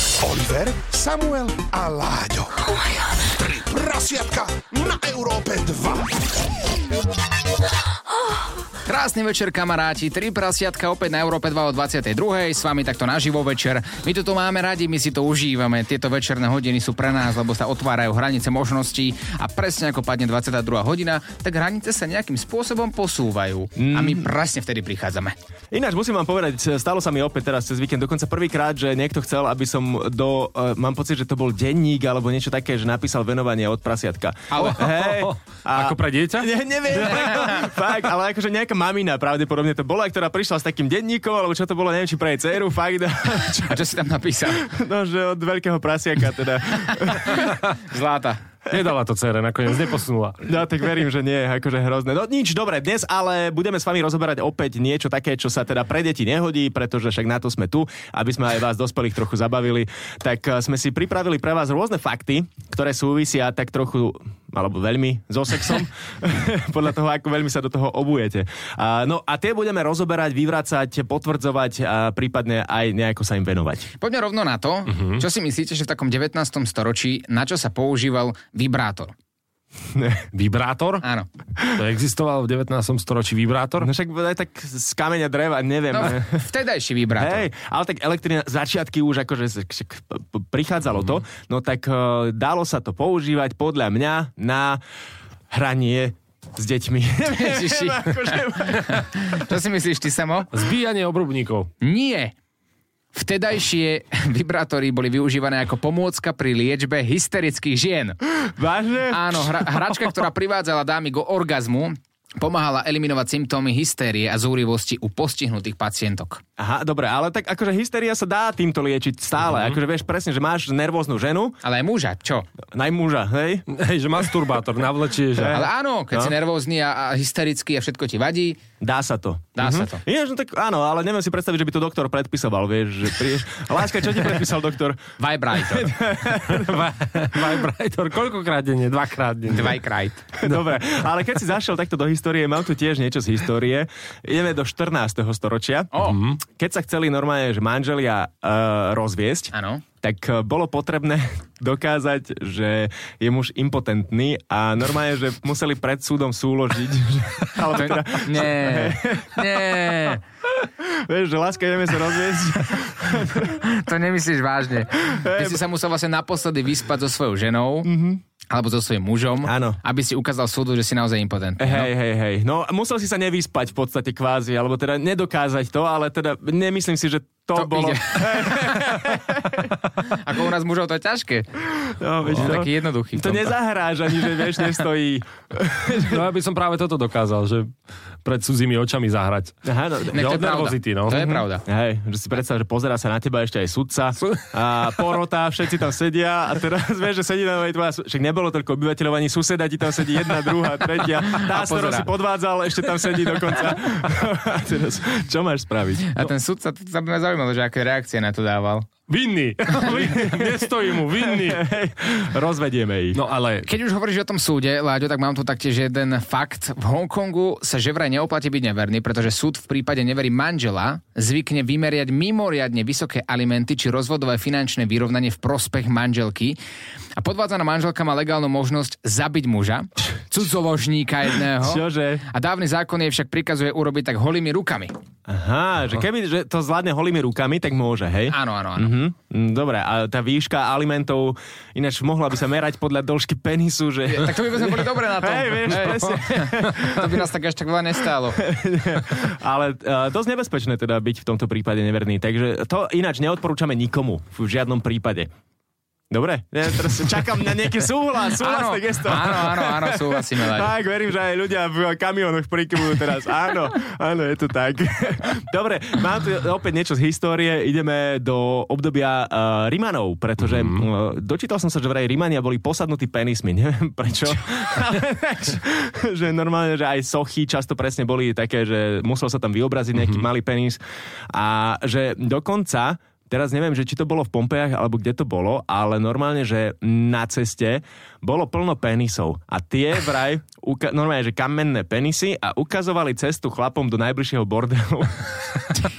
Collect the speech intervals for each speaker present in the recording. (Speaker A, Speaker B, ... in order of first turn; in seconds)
Speaker A: 0.2-2.7, 3.3-6.1
Speaker B: 8.9-25.4, 34.5-34.9, 43.6-44.6, 47.9-48.4, 74.0-79.1, 81.0-81.3, 85.9-87.5, 97.3-100.5, 101.8-102.3, 103.1-108.2, 109.1-116.4, 121.6-122.5, 125.5-128.6, 129.6-130.0, 135.2-135.9, 139.5-140.2, 145.9-146.2, 149.5-149.8, 157.7-160.2, 163.4-167.9, 168.5-171.9, 177.6-178.8, 180.1-181.5, 182.3-183.5, 190.1-191.6, 201.3-202.1, 206.1-208.9, 213.7-226.6, 227.2-234.9, 238.3-238.9, 244.1-248.4, 258.4-260.7
Speaker C: 23.8-24.3, 25.7-43.8, 44.5-47.4, 50.4-73.9, 79.9-80.3, 83.8-86.5, 87.2-94.8, 95.5-99.0, 108.5-109.8, 116.6-121.6, 122.7-123.7, 125.4-126.3, 128.8-135.0, 135.5-136.9, 140.3-145.9, 146.5-160.1, 160.6-163.6, 165.0-165.6, 167.9-168.2, 169.4-169.8, 171.6-179.7, 182.0-186.2, 189.7-190.3, 191.7-206.1, 209.8-213.2, 231.6-232.2, 235.3-247.3, 248.3-255.3, 256.1-295.6
Speaker D: 34.6-37.5, 48.7-50.5, 74.9-75.2, 80.3-81.0, 81.7-83.9, 100.5-101.7, 123.7-125.7, 136.5-139.8, 146.0-146.4, 182.2-182.7, 186.0-187.7, 188.2-189.6, 190.1-191.4, 209.1-211.7, 213.1-213.7, 245.8-246.1, 270.4-270.9, 279.9-280.3